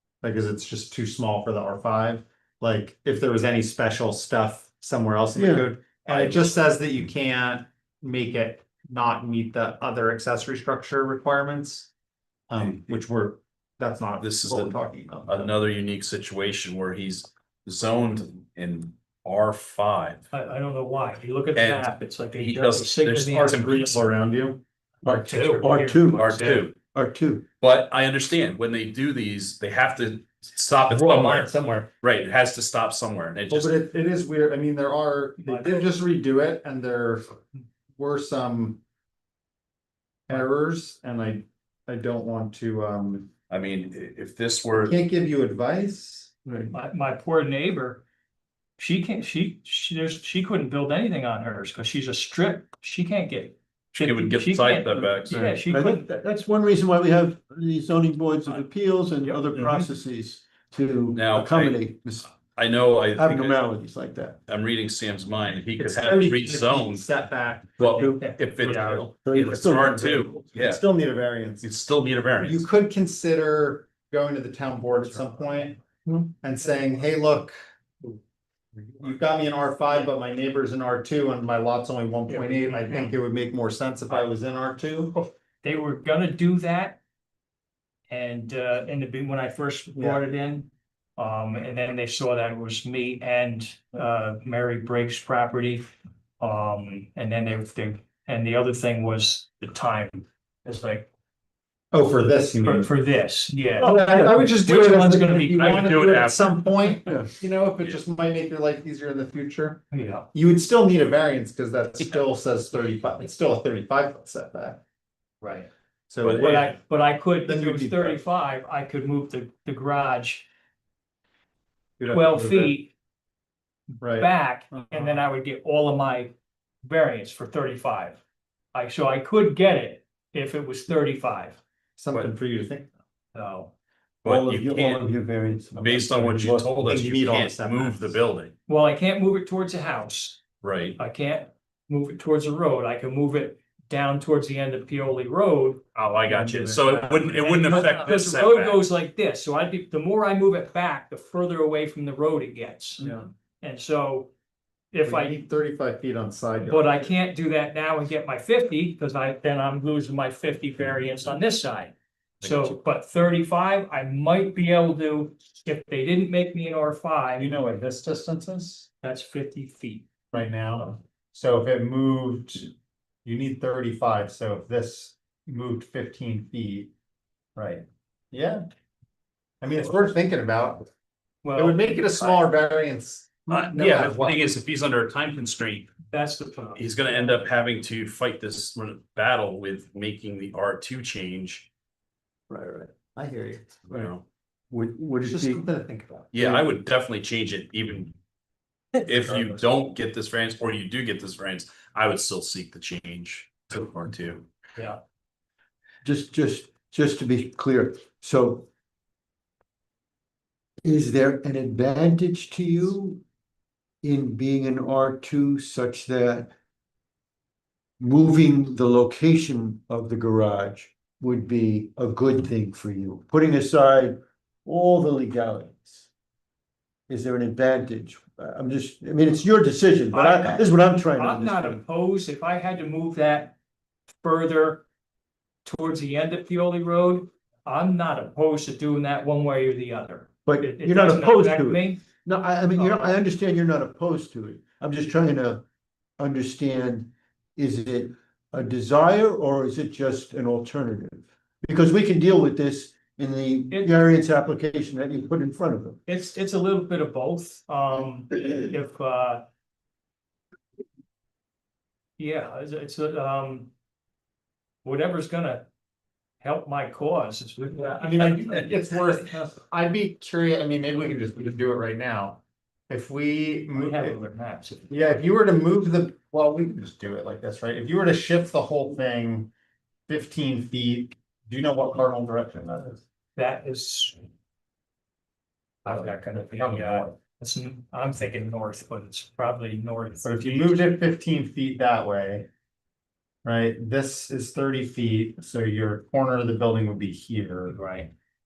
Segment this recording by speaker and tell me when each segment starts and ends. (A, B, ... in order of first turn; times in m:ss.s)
0:00.2-0:11.9 A
0:05.4-0:05.7 B
0:06.1-0:06.5 C
0:12.5-0:15.5 A
0:14.2-0:14.8 C
0:15.3-0:20.3 C
0:20.3-0:24.1 D
0:21.6-0:23.8 C
0:23.3-0:24.6 A
0:25.0-0:27.4 B
0:25.0-0:26.7 D
0:25.3-0:26.7 C
0:27.6-0:33.8 C
0:30.9-0:31.9 A
0:33.5-0:37.3 A
0:35.4-0:35.9 D
0:38.0-0:38.8 A
0:40.3-0:43.3 A
0:43.5-0:45.0 C
0:44.8-0:46.3 A
0:46.5-0:46.7 B
0:46.7-0:48.0 D
0:48.8-0:56.1 D
0:54.0-0:55.5 C
0:55.3-1:02.3 B
0:59.6-0:59.9 C
1:01.1-1:03.6 C
1:03.2-1:04.4 B
1:04.5-1:07.1 C
1:05.8-1:08.1 A
1:07.8-1:10.8 C
1:08.1-1:09.1 D
1:09.2-1:10.4 B
1:10.6-1:11.7 A
1:11.6-1:12.7 C
1:12.4-1:15.8 A
1:16.4-1:17.5 A
1:19.0-1:25.2 A
1:22.3-1:23.2 D
1:25.2-1:27.0 D
1:28.1-1:41.1 D
1:41.9-1:42.9 A
1:42.6-1:46.0 D
1:43.8-1:54.8 A
1:45.6-1:46.9 C
1:49.9-1:50.3 D
1:55.4-1:55.7 D
1:56.1-1:56.8 A
1:56.2-1:56.7 C
1:56.4-2:00.5 D
1:57.4-1:58.2 A
2:02.0-2:02.8 A
2:02.1-2:02.9 D
2:04.0-2:08.2 D
2:04.0-2:05.2 A
2:08.7-2:11.6 D
2:12.0-2:12.9 A
2:13.4-2:13.7 D
2:14.2-2:15.1 C
2:14.2-2:16.9 B
2:15.8-2:18.5 C
2:16.8-2:18.2 A
2:18.7-2:20.4 D
2:20.6-2:21.0 C
2:21.0-2:34.3 D
2:26.0-2:28.8 C
2:34.9-2:35.4 D
2:35.0-2:37.1 A
2:36.6-2:47.5 D
2:42.4-2:42.7 C
2:47.4-2:48.9 A
2:49.0-2:50.1 D
2:50.3-2:52.7 A
2:53.2-2:56.9 A
2:57.6-2:58.6 A
2:59.6-3:00.9 A
3:01.4-3:02.4 D
3:01.6-3:04.4 A
3:03.5-3:06.0 C
3:06.1-3:07.4 D
3:06.8-3:11.7 C
3:12.5-3:12.9 B
3:13.1-3:13.7 A
3:13.9-3:14.2 C
3:14.7-3:15.7 B
3:15.2-3:16.7 A
3:16.3-3:18.2 C
3:19.0-3:24.5 C
3:26.0-3:28.7 B
3:30.8-3:33.2 B
3:34.0-3:36.5 B
3:38.0-3:46.1 B
3:47.1-3:51.8 B
3:50.1-3:53.6 D
3:54.2-3:54.8 D
3:55.6-4:02.1 D
4:00.5-4:05.6 B
4:02.7-4:03.2 D
4:06.2-4:16.0 B
4:13.7-4:14.0 D
4:16.1-4:19.5 D
4:22.2-4:23.7 D
4:24.8-4:25.7 D
4:26.4-4:29.2 D
4:28.0-4:34.2 A
4:33.7-4:35.2 D
4:34.9-4:39.5 A
4:40.1-4:43.0 A
4:43.4-4:44.2 D
4:45.8-4:50.9 D
4:45.9-4:47.1 A
4:50.2-4:52.5 A
4:53.4-4:57.8 A
4:57.7-4:58.1 D